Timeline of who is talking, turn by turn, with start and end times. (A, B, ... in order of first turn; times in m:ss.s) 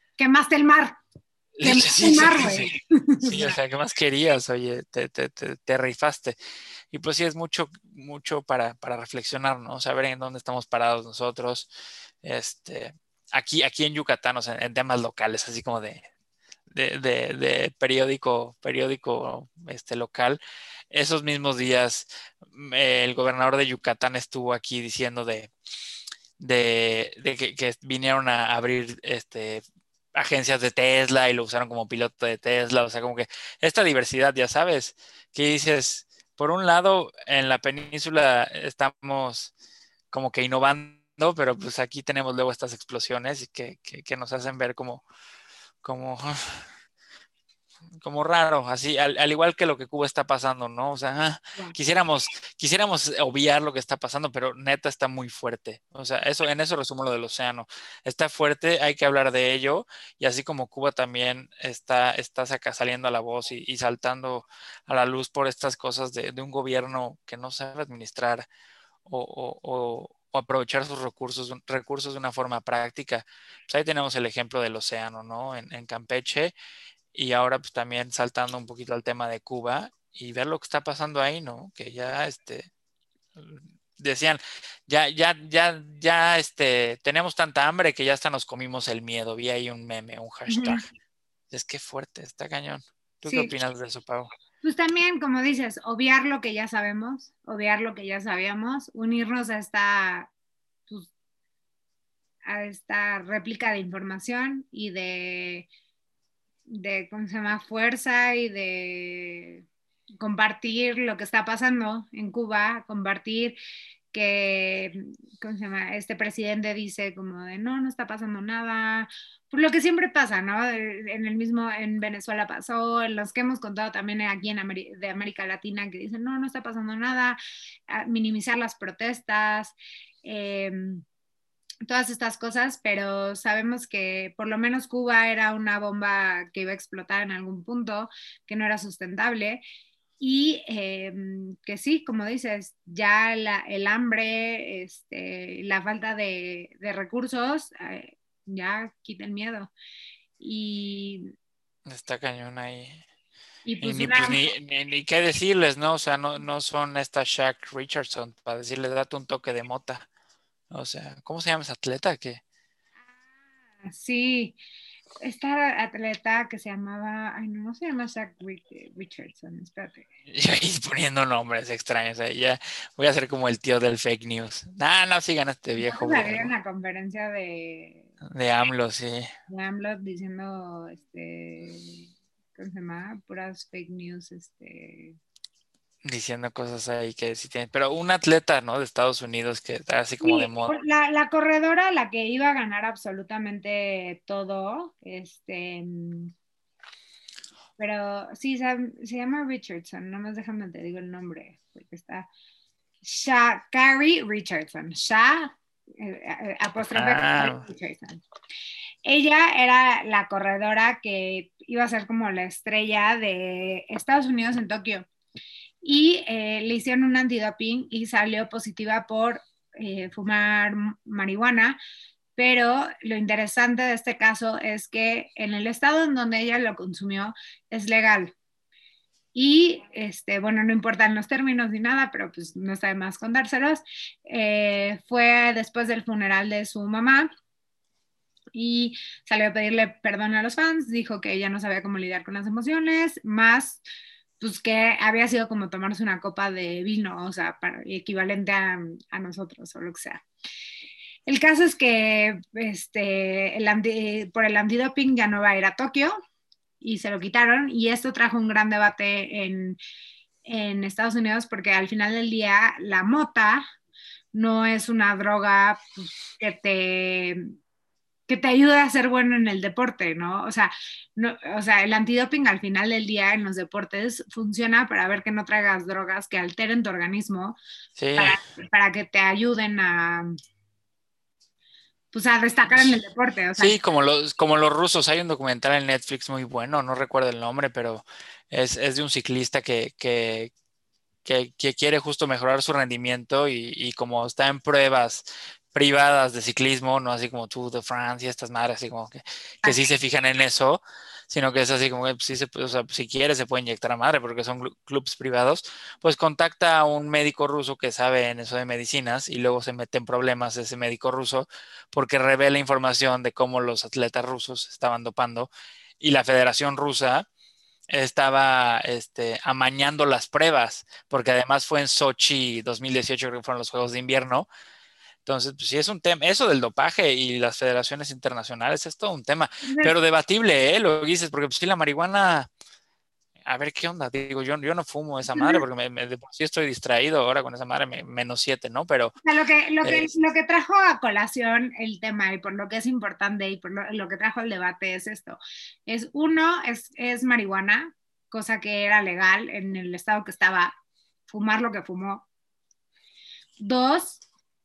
0:00.2-0:01.0 A
0:01.6-0:02.7 B
0:01.6-0:03.5 A
0:03.2-0:06.4 B
0:06.9-0:11.7 B
0:12.2-0:16.0 B
0:16.7-0:20.4 B
0:20.9-0:25.5 B
0:26.4-0:29.6 B
0:30.1-0:39.5 B
0:40.1-0:45.0 B
0:45.8-0:46.7 B
0:48.0-1:08.4 B
1:09.0-1:16.5 B
1:17.1-1:22.7 B
1:23.4-1:30.8 B
1:30.5-1:30.8 A
1:31.5-1:34.3 B
1:33.2-1:33.5 A
1:34.6-1:40.3 A
1:42.4-1:45.7 A
1:46.7-1:49.6 A
1:50.2-1:53.6 A
1:54.1-2:07.4 A
2:07.9-2:11.0 A
2:11.8-2:19.6 A
2:20.2-2:29.7 A
2:30.4-2:31.3 A
2:31.8-2:33.0 B
2:33.6-2:34.4 A
2:33.8-2:40.0 B
2:40.7-2:42.4 B
2:43.8-2:44.6 A
2:45.2-2:50.0 A
2:50.3-2:56.5 B
2:55.8-2:58.1 A
2:58.3-2:59.3 B
2:59.5-3:05.2 A
3:06.0-3:10.8 B
3:10.2-3:16.3 A
3:17.8-3:22.3 A
3:23.0-3:28.2 A
3:26.9-3:27.6 B
3:29.0-3:35.1 A
3:35.8-3:41.8 A
3:42.4-3:48.3 A
3:49.3-3:57.3 A
3:58.5-4:03.8 A
4:04.4-4:10.2 A
4:11.3-4:16.2 A
4:16.8-4:19.8 A
4:20.4-4:23.6 A
4:24.3-4:27.5 A
4:28.3-4:37.6 A
4:38.0-4:38.4 B
4:38.2-4:40.3 A
4:42.1-4:43.8 A
4:43.6-4:50.5 B
4:51.2-5:17.3 B
5:17.9-5:24.5 B
5:25.2-5:32.5 B
5:29.6-5:29.9 A
5:33.4-5:39.1 B
5:35.3-5:35.6 A
5:39.2-5:50.7 A
5:39.8-5:40.1 B
5:51.3-5:52.2 A
5:53.6-5:54.2 A